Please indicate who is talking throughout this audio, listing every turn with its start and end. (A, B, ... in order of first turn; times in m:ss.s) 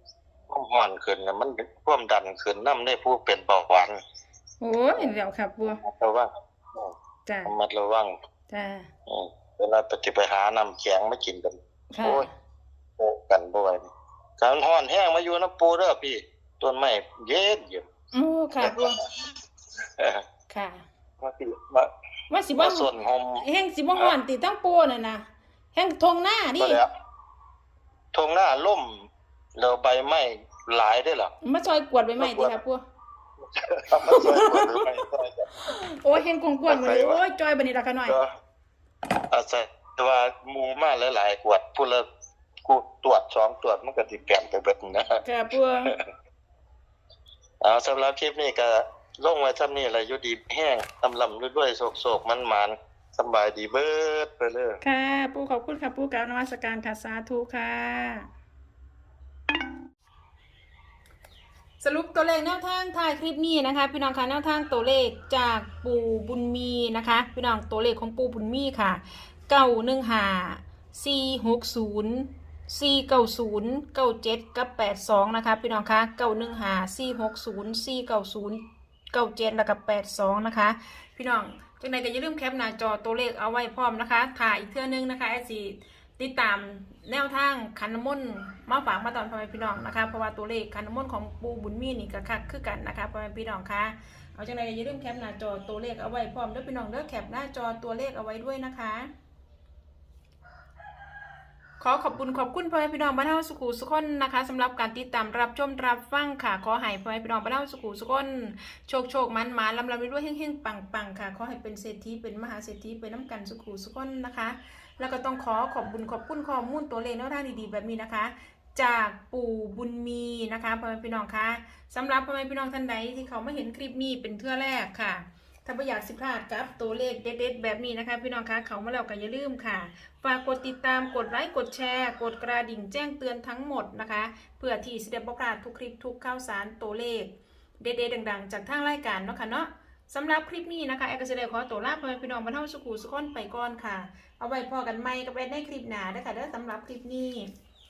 0:00.5-0:04.0 A
0:04.6-0:05.8 B
0:04.9-0:06.9 A
0:07.3-0:07.5 B
0:07.4-0:08.1 A
0:08.5-0:08.9 B
0:09.1-0:12.3 A
0:11.9-0:12.3 B
0:13.0-0:13.8 A
0:14.4-0:17.9 A
0:18.1-0:19.0 B
0:20.0-0:20.2 A
0:20.5-0:20.8 B
0:21.2-0:21.9 A
0:22.3-0:22.9 B
0:22.6-0:23.4 A
0:23.4-0:26.8 B
0:26.6-0:26.9 A
0:28.1-0:31.3 A
0:31.4-0:32.8 B
0:32.2-0:32.6 A
0:33.5-0:35.5 A
0:34.0-0:34.9 B
0:35.6-0:38.2 B
0:36.7-0:37.2 A
0:39.3-0:42.1 A
0:42.6-0:45.2 A
0:45.2-0:46.0 B
0:47.6-0:54.8 A
0:54.8-0:58.3 B
1:01.8-1:39.1 B
1:41.8-2:27.5 B